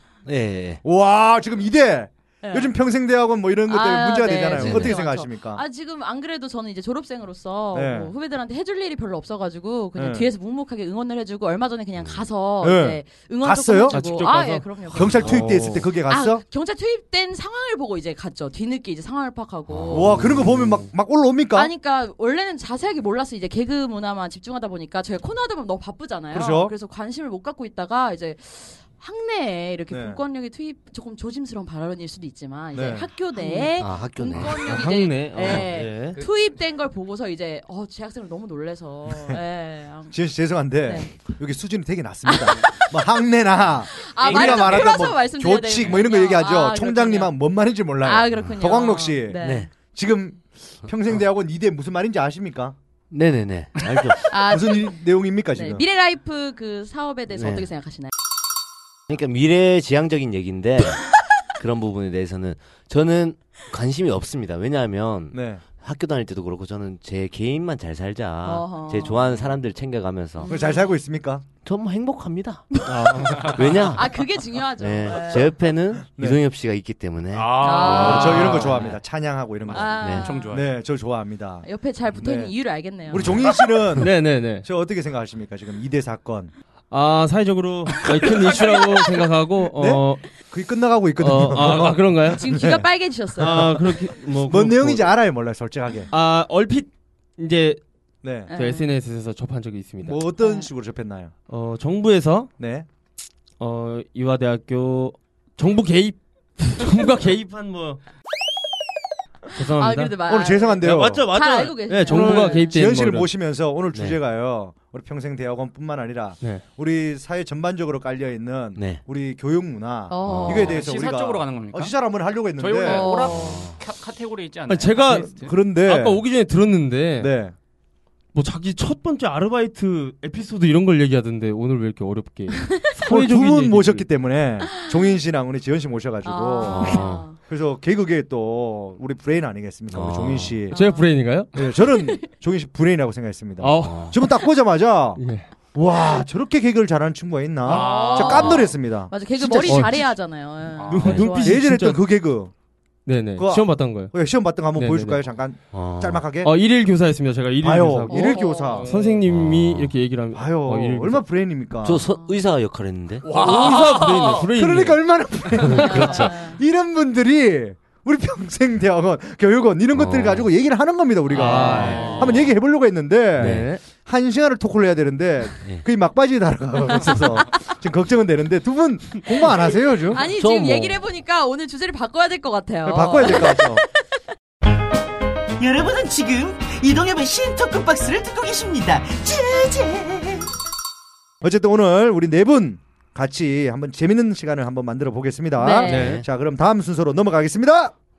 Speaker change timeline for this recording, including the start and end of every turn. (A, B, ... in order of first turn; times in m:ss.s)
0:00.2-0:00.8 A
0:00.8-0:05.6 B
0:02.4-0:02.8 C
0:03.7-0:20.3 C
0:04.5-0:05.0 A
0:07.7-0:08.1 B
0:10.0-0:10.3 B
0:12.0-0:12.3 A
0:12.6-0:14.0 B
0:13.9-0:15.8 D
0:14.9-0:16.4 B
0:19.7-0:20.6 A
0:19.9-0:21.7 B
0:21.5-0:40.2 C
0:26.3-0:26.7 B
0:29.9-0:30.2 B
0:32.7-0:33.1 B
0:33.8-0:34.8 A
0:34.6-0:36.2 D
0:36.1-0:36.6 E
0:39.1-0:39.4 B
0:40.1-0:52.8 B
0:40.8-0:41.1 C
0:42.2-0:42.9 C
0:43.9-0:47.4 C
0:44.2-0:44.9 E
0:47.9-0:49.7 C
0:49.4-0:49.7 A
0:53.1-0:54.2 A
0:54.3-0:58.1 C
0:54.5-0:55.8 B
0:57.3-0:57.7 A
0:59.1-1:10.5 A
1:05.3-1:05.6 B
1:08.4-1:09.4 C
1:10.4-1:10.9 C
1:10.5-1:11.5 B
1:11.6-1:12.8 A
1:12.7-1:15.5 C
1:12.8-1:13.5 D
1:13.4-1:13.8 E
1:13.4-1:14.2 A
1:14.8-1:19.0 A
1:16.0-1:16.4 B
1:17.3-1:18.9 E
1:17.6-1:18.6 C
1:17.8-1:26.5 B
1:19.7-1:20.7 E
1:19.7-1:20.6 C
1:20.0-1:20.3 A
1:21.6-1:23.3 C
1:23.2-1:23.5 A
1:24.0-1:24.7 D
1:26.9-1:30.4 D
1:28.0-1:29.3 E
1:29.7-1:36.1 B
1:31.2-1:32.4 D
1:32.3-1:33.7 C
1:33.4-1:35.1 D
1:36.1-1:37.8 D
1:38.2-1:38.5 B
1:38.5-1:38.9 C
1:38.5-1:40.2 D
1:40.0-1:41.3 B
1:40.4-1:40.7 C
1:41.5-1:42.5 D
1:42.6-1:42.9 B
1:43.6-1:48.0 D
1:49.5-1:52.7 C
1:49.6-1:50.2 D
1:50.2-1:51.3 B
1:50.8-1:53.3 D
1:52.1-2:03.1 B
1:53.9-1:54.2 A
1:58.8-1:59.0 A
2:00.1-2:00.8 C
2:00.2-2:00.7 A
2:00.5-2:02.0 E
2:02.6-2:05.6 E
2:02.8-2:03.6 C
2:03.3-2:03.7 A
2:04.7-2:07.3 D
2:05.1-2:06.3 B
2:07.2-2:07.5 B
2:08.3-2:14.1 D
2:12.5-2:12.8 C
2:13.0-2:20.8 B
2:16.2-2:17.4 C
2:16.7-2:17.3 A
2:19.9-2:20.6 A
2:20.7-2:22.2 C
2:20.7-2:21.5 D
2:21.5-2:25.2 B
2:23.6-2:24.4 D
2:23.8-2:24.1 A
2:25.2-2:25.5 D
2:25.7-2:30.2 B
2:27.6-2:28.6 E
2:27.7-2:31.6 C
2:29.7-2:30.0 D
2:30.7-2:31.2 E
2:30.9-2:32.0 D
2:31.3-2:32.5 B
2:33.1-2:34.1 D
2:33.4-2:36.5 B
2:34.7-2:35.2 D
2:35.7-2:36.3 A
2:36.4-2:41.2 D
2:37.6-2:38.9 B
2:38.1-2:38.9 C
2:39.2-2:40.0 A
2:40.3-2:42.0 B
2:41.8-2:43.4 A
2:42.0-2:42.4 C
2:43.2-2:44.5 E
2:43.3-2:45.2 D
2:44.5-3:00.3 B
2:45.6-2:46.4 A
2:45.7-2:46.6 C
2:45.8-2:46.1 D
2:49.9-2:50.5 A
2:51.4-2:52.4 D
2:51.4-2:52.4 E
2:51.6-2:52.5 A
2:53.4-2:53.7 A
2:53.4-2:53.8 D
2:56.9-2:57.5 C
3:00.1-3:04.0 C
3:00.3-3:01.0 A
3:02.8-3:03.8 B
3:05.6-3:10.4 F
3:11.4-3:17.9 B
3:15.6-3:16.1 C
3:15.8-3:16.2 D
3:15.9-3:16.2 A